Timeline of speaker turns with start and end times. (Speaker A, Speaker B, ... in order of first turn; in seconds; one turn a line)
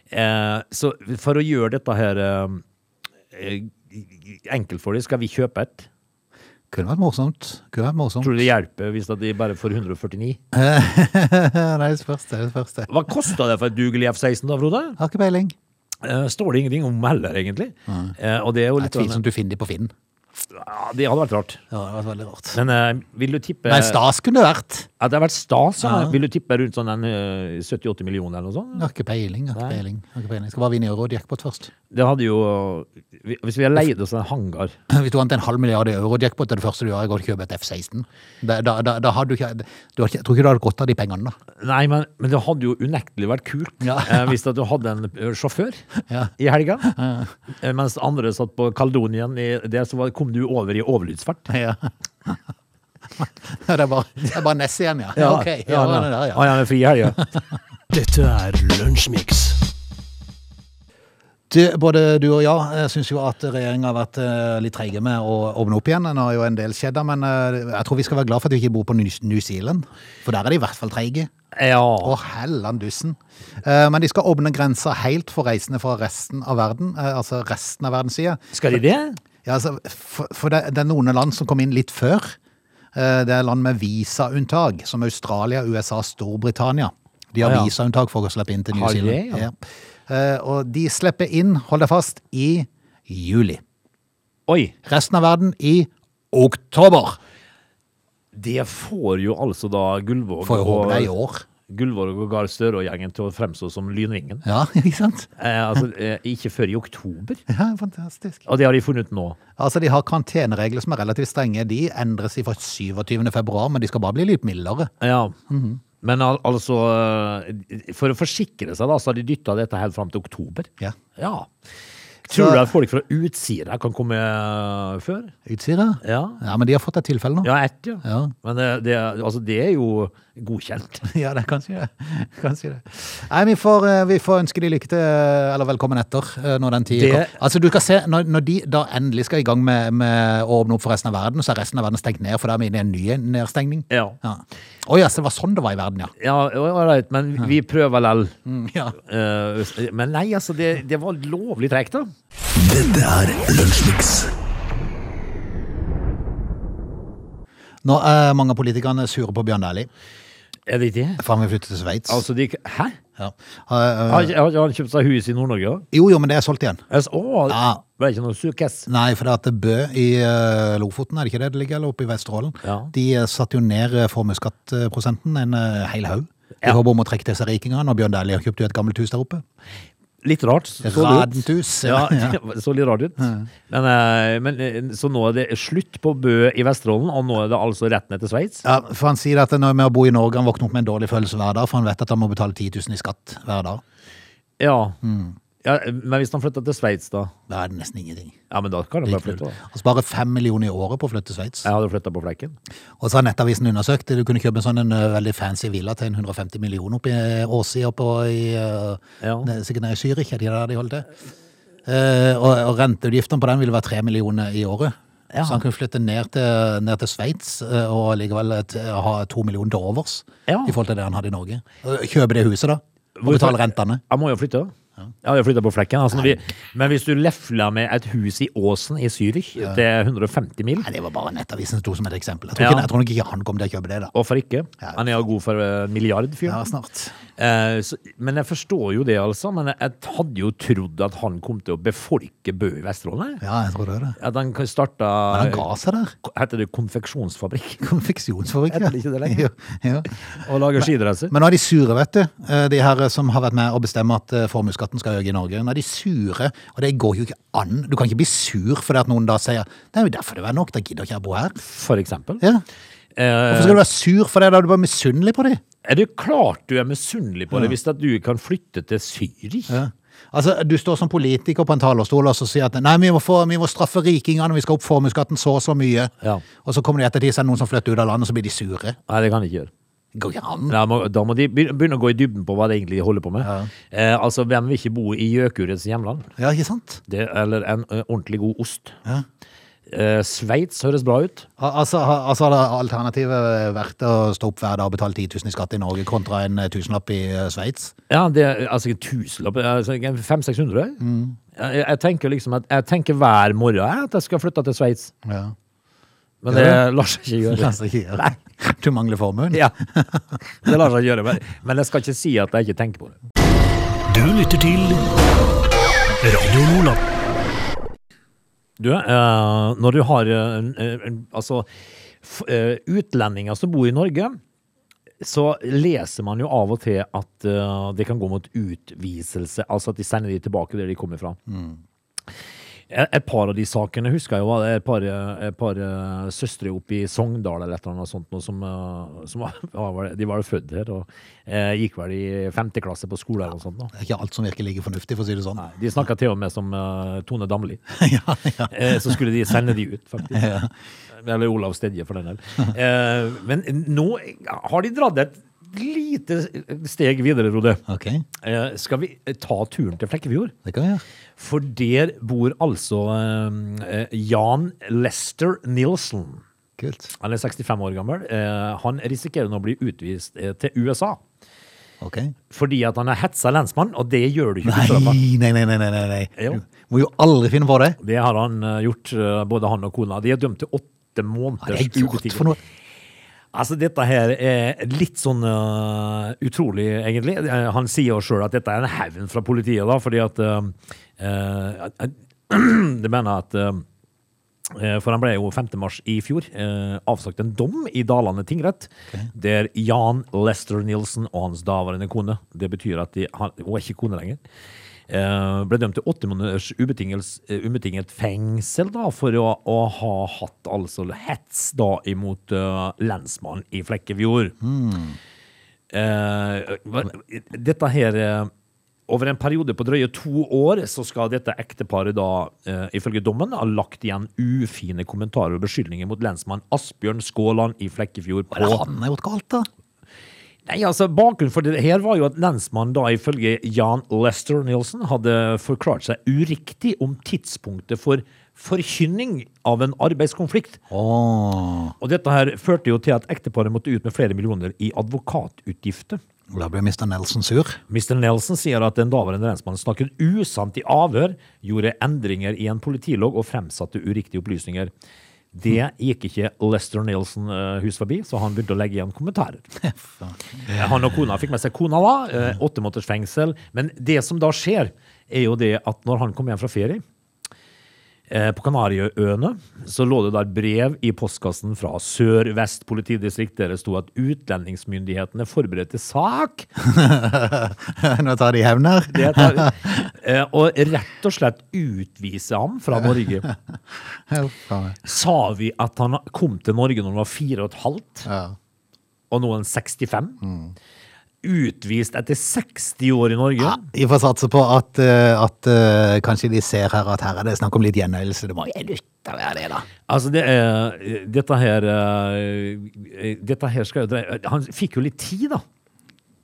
Speaker A: 0.1-2.6
Speaker A: 3.3-5.9
Speaker B: 6.7-8.3
Speaker A: 8.2-10.4
Speaker B: 10.5-12.9
Speaker A: 12.9-15.0
Speaker B: 15.0-15.5
Speaker A: 16.0-19.2
Speaker B: 17.9-18.1
Speaker B: 18.8-19.9
Speaker A: 20.5-21.6
Speaker B: 21.7-22.6
Speaker A: 22.5-24.0
Speaker B: 23.6-24.9
Speaker A: 25.0-28.9
Speaker B: 25.8-26.1
Speaker B: 28.8-31.7
Speaker A: 29.5-29.8
Speaker A: 31.9-34.7
Speaker B: 34.9-41.3
Speaker A: 41.6-45.8
Speaker B: 43.8-44.3
Speaker A: 46.4-46.9
Speaker B: 46.8-47.3
Speaker A: 47.5-51.5
Speaker B: 51.5-52.4
Speaker B: 53.2-56.5
Speaker A: 55.1-57.3
Speaker C: 57.9-59.6
Speaker B: 61.5-71.3
Speaker A: 71.5-72.2
Speaker B: 72.0-78.4
Speaker A: 78.5-79.2
Speaker B: 79.4-82.4
Speaker B: 82.9-89.5
Speaker A: 87.4-87.7
Speaker A: 88.7-89.5
Speaker B: 90.1-93.6
Speaker A: 94.5-94.7
Speaker B: 94.8-97.2
Speaker A: 98.3-101.1
Speaker B: 100.4-101.5
Speaker A: 101.7-104.4
Speaker B: 104.4-105.3
Speaker A: 105.4-107.4
Speaker B: 107.5-108.4
Speaker A: 108.5-109.4
Speaker B: 109.6-114.9
Speaker A: 115.0-115.3
Speaker B: 115.5-115.8
Speaker A: 116.0-121.5
Speaker A: 122.2-125.3
Speaker B: 122.3-122.7
Speaker B: 125.5-127.5
Speaker A: 126.0-126.4
Speaker A: 127.4-131.0
Speaker B: 128.0-128.3
Speaker B: 131.0-146.1
Speaker A: 136.9-137.4
Speaker A: 143.9-144.2
Speaker A: 146.2-148.3
Speaker B: 148.4-149.0
Speaker A: 149.0-152.1
Speaker C: 152.6-154.3
Speaker B: 157.8-159.9
Speaker A: 160.7-161.2
Speaker B: 161.2-162.2
Speaker A: 162.1-163.0
Speaker B: 163.2-164.3
Speaker A: 164.1-165.8
Speaker B: 165.9-166.8
Speaker A: 166.9-168.9
Speaker B: 167.5-167.8
Speaker B: 168.9-179.4
Speaker A: 172.6-172.9
Speaker A: 180.2-188.6
Speaker B: 180.8-182.4
Speaker B: 183.2-183.4
Speaker B: 188.6-193.8
Speaker A: 194.6-195.0
Speaker B: 195.0-195.3
Speaker A: 195.6-197.3
Speaker B: 197.5-198.3
Speaker A: 198.5-199.6
Speaker B: 199.0-201.7
Speaker A: 201.6-202.6
Speaker B: 203.0-211.1
Speaker A: 209.2-209.5
Speaker B: 211.8-224.0
Speaker A: 215.3-215.6
Speaker A: 220.5-220.7
Speaker A: 223.2-230.9
Speaker B: 230.8-234.1
Speaker A: 232.6-232.9
Speaker A: 234.1-236.6
Speaker B: 236.4-237.2
Speaker A: 237.4-243.4
Speaker B: 243.4-244.2
Speaker A: 244.2-245.7
Speaker B: 245.3-246.1
Speaker A: 246.2-247.8
Speaker B: 247.8-261.6
Speaker A: 248.7-249.4
Speaker A: 250.4-251.3
Speaker A: 261.6-262.4
Speaker A: 263.1-263.8
Speaker B: 263.5-265.6
Speaker A: 265.8-269.8
Speaker B: 269.7-279.0
Speaker A: 279.1-279.7
Speaker B: 280.1-280.8
Speaker A: 280.7-286.3
Speaker B: 283.4-283.7
Speaker B: 286.4-287.0
Speaker A: 287.1-288.9
Speaker A: 289.9-291.4
Speaker B: 291.6-297.9
Speaker A: 298.1-301.0
Speaker B: 301.0-301.4
Speaker A: 301.5-305.1
Speaker B: 305.2-305.5
Speaker A: 306.4-308.4
Speaker B: 306.5-306.8
Speaker B: 307.5-310.7
Speaker A: 310.6-313.2
Speaker C: 314.1-315.1
Speaker C: 316.2-317.0
Speaker A: 318.8-321.7
Speaker A: 322.2-324.4
Speaker A: 325.2-331.4
Speaker B: 331.5-331.8
Speaker A: 332.9-343.9
Speaker B: 343.9-345.7
Speaker A: 345.6-347.8
Speaker B: 347.9-349.2
Speaker A: 348.7-350.4
Speaker B: 350.3-350.7
Speaker A: 351.1-357.8
Speaker B: 357.9-358.2
Speaker A: 358.4-360.5
Speaker B: 360.6-361.0
Speaker A: 361.4-366.4
Speaker B: 366.8-367.1
Speaker A: 367.2-371.2
Speaker B: 372.0-372.3
Speaker A: 372.5-375.2
Speaker B: 374.6-378.0
Speaker A: 378.0-382.5
Speaker B: 381.6-382.6
Speaker A: 383.5-393.8
Speaker A: 394.7-404.4
Speaker A: 405.1-414.6
Speaker B: 414.6-415.1
Speaker A: 415.9-418.5
Speaker A: 419.1-428.8
Speaker B: 428.5-429.7
Speaker A: 430.6-440.8
Speaker B: 440.9-441.9
Speaker A: 442.0-446.2
Speaker B: 446.5-447.8
Speaker A: 447.9-454.9
Speaker A: 455.5-459.6
Speaker B: 459.8-460.8
Speaker A: 460.6-467.0
Speaker A: 468.3-476.7
Speaker B: 476.8-480.1
Speaker A: 479.1-483.4
Speaker B: 484.3-485.0
Speaker A: 485.0-488.3
Speaker B: 488.2-488.6
Speaker A: 489.3-490.4
Speaker B: 490.4-490.7
Speaker A: 491.4-493.9
Speaker B: 493.6-499.9
Speaker A: 500.1-505.6